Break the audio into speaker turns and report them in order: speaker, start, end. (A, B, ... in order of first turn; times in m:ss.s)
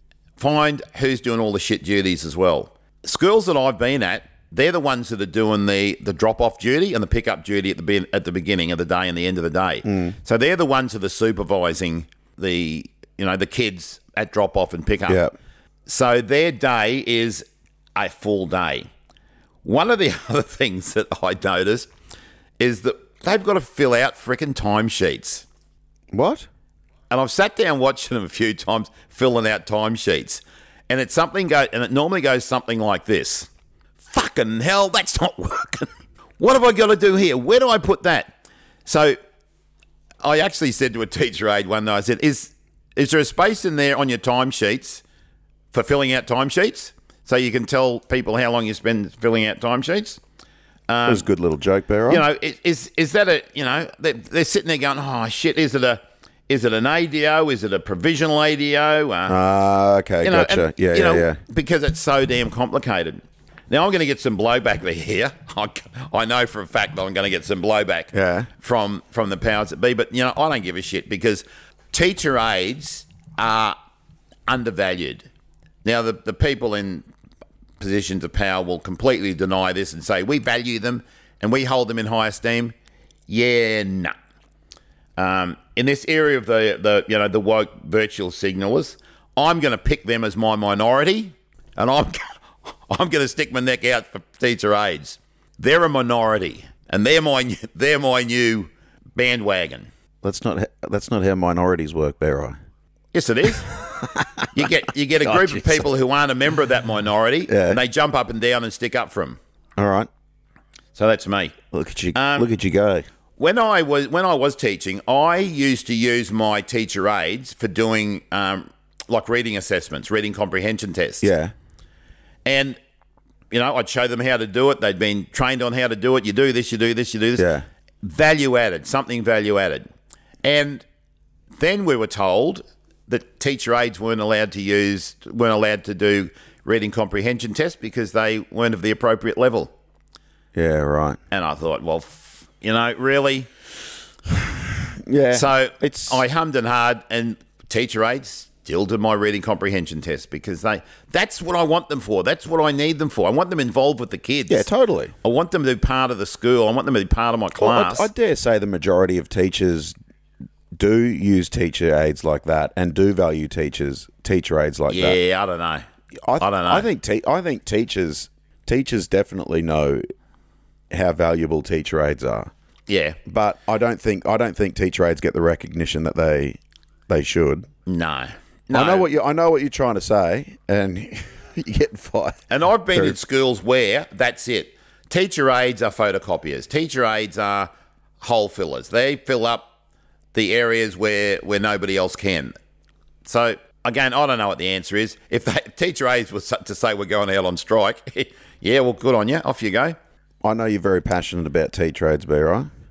0:00.4-0:15.2 A
0:09.8-0:10.1 B
0:15.1-0:15.3 B
0:15.8-0:18.9 A
0:19.6-0:21.9 A
0:22.6-0:25.4 A
0:26.1-0:26.5 B
0:27.1-0:33.5 A
0:34.0-0:38.3 A
0:38.8-0:39.2 A
0:40.2-0:45.0 A
0:45.7-0:50.2 A
0:50.9-0:51.2 A
0:51.0-0:52.2 B
0:52.1-0:59.4 A
0:59.3-1:01.4 B
1:00.2-1:13.8 A
1:08.1-1:08.5 B
1:14.5-1:15.3 A
1:15.8-1:17.0 A
1:17.8-1:22.7 A
1:23.3-1:24.1 A
1:25.2-1:39.9 A
1:40.2-1:42.6 B
1:43.1-1:43.7 A
1:43.8-1:44.6 B
1:44.5-1:49.4 A
1:45.2-1:45.8 B
1:47.5-1:47.8 B
1:49.8-1:50.1 B
1:50.9-1:51.6 A
1:51.7-1:53.0 B
1:52.1-1:52.5 A
1:53.4-2:01.3 A
2:01.2-2:01.5 B
2:02.4-2:02.8 A
2:03.5-2:07.5 A
2:07.4-2:07.6 B
2:08.0-2:09.9 A
2:10.4-2:10.8 A
2:11.6-2:19.7 A
2:20.5-2:21.2 B
2:21.3-2:23.5 A
2:24.9-2:26.2 B
2:25.3-2:34.7 A
2:34.5-2:35.1 B
2:35.2-2:38.1 A
2:37.6-2:39.9 B
2:40.8-2:45.2 B
2:44.9-2:45.8 A
2:46.2-2:50.0 B
2:46.4-2:46.9 A
2:50.9-2:52.5 B
2:52.9-2:53.2 A
2:53.2-2:57.7 B
2:57.8-2:59.1 A
2:58.7-3:02.4 B
3:02.5-3:07.7 A
3:08.2-3:09.7 A
3:10.3-3:12.5 A
3:13.2-3:20.0 A
3:20.4-3:22.7 B